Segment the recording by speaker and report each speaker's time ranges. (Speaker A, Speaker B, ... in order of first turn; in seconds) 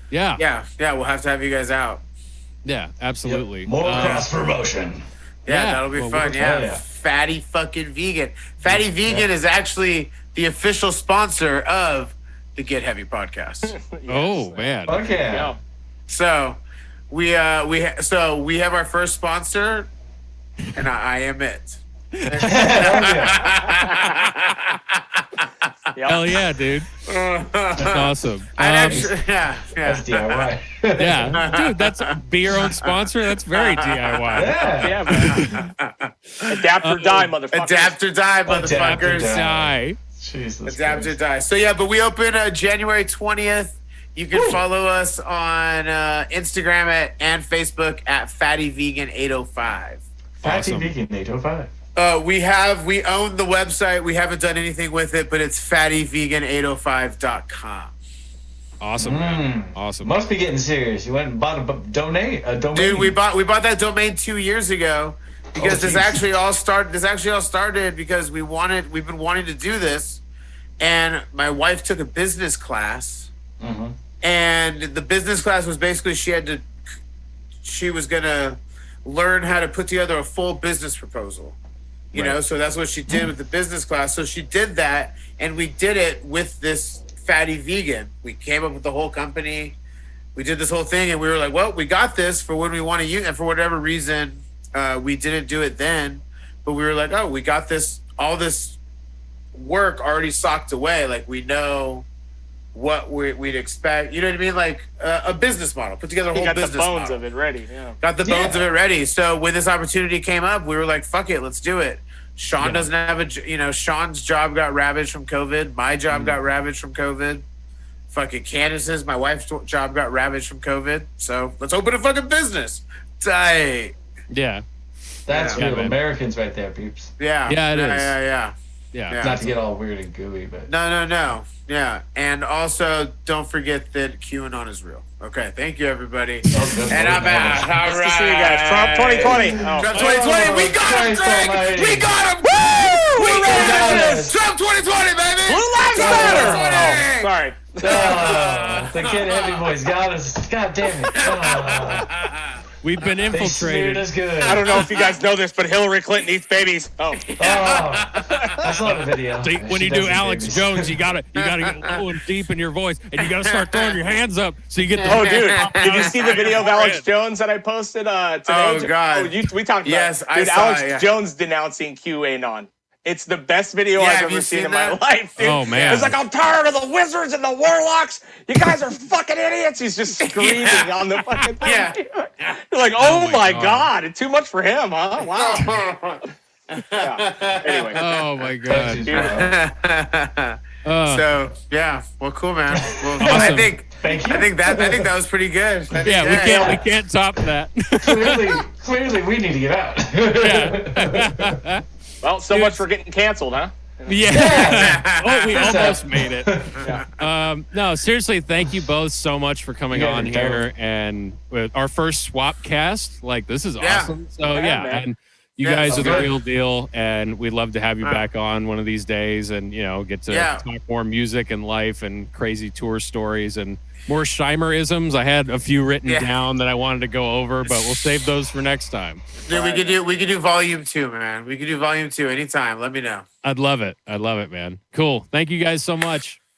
Speaker A: 0.1-0.4, 2.6-4.3, 5.5-6.4, 14.1-15.0, 22.2-22.5, 26.1-26.9, 27.8-29.1, 31.0-35.6, 36.8-37.3, 38.6-40.0, 50.4-50.9, 58.8-60.1, 82.1-82.4, 112.6-112.9, 116.1-116.4, 124.3-124.6, 125.5-126.0, 127.4-128.2, 128.9-129.6, 152.8-154.1, 159.3-167.0, 175.4-176.2, 183.0-183.9, 187.9-189.2, 190.8-191.2, 193.2-193.7, 196.0-198.6, 200.4-201.8, 202.5-202.8, 204.1-229.3, 233.4-236.4
Speaker B: 0.3-2.0, 4.0-4.2, 5.4-13.8, 16.1-16.6, 17.1-19.9, 20.7-25.4, 27.1-30.5, 31.3-36.1, 37.5-39.3, 40.6-50.0, 51.9-57.9, 62.7-70.2, 70.8-73.3, 74.2-76.7, 77.6-81.6, 82.1-89.8, 90.3-98.8, 99.5-102.0, 102.7-107.2, 108.0-117.5, 118.1-123.9, 125.3-125.6, 127.2-128.5, 129.1-129.4, 130.7-149.7, 151.1-152.6, 154.5-154.7, 157.3-158.4, 161.4-162.0, 163.2-164.0, 164.9-166.5, 168.4-171.1, 173.9-175.0, 175.7-176.1, 180.2-180.9, 181.6-182.0, 185.2-188.0, 189.1-196.8, 204.7-205.9, 206.8-207.2, 213.8-214.1, 215.6-216.3, 220.3-220.6, 226.1-226.3, 227.6-228.1, 229.5-233.2
Speaker C: 3.2-5.0, 6.3-6.8, 9.0-9.3, 14.8-15.5, 22.4-23.4, 28.9-29.1, 29.8-31.4, 34.3-35.0, 38.5-41.1, 50.4-51.7, 59.0-63.1, 65.6-66.3, 73.6-73.9, 108.2-108.6, 125.2-127.1, 129.2-130.7, 136.4-137.8, 139.1-142.1, 143.3-144.4, 145.9-147.1, 147.8-152.1, 153.3-154.8, 157.4-160.9, 188.7-189.5, 193.0-195.1, 196.3-196.8, 198.0-201.6, 204.2-206.9, 209.9-210.7, 215.9-216.3
Speaker D: 13.7-15.6, 23.7-24.0, 25.9-26.4, 34.8-35.4, 36.5-38.0, 106.3-108.0, 137.8-140.2, 142.5-144.3, 145.4-148.4, 154.4-157.4, 158.3-158.7, 165.0-185.7, 187.0-188.5, 189.0-189.3, 202.2-204.7, 206.8-207.0, 214.5-215.1, 229.4-230.0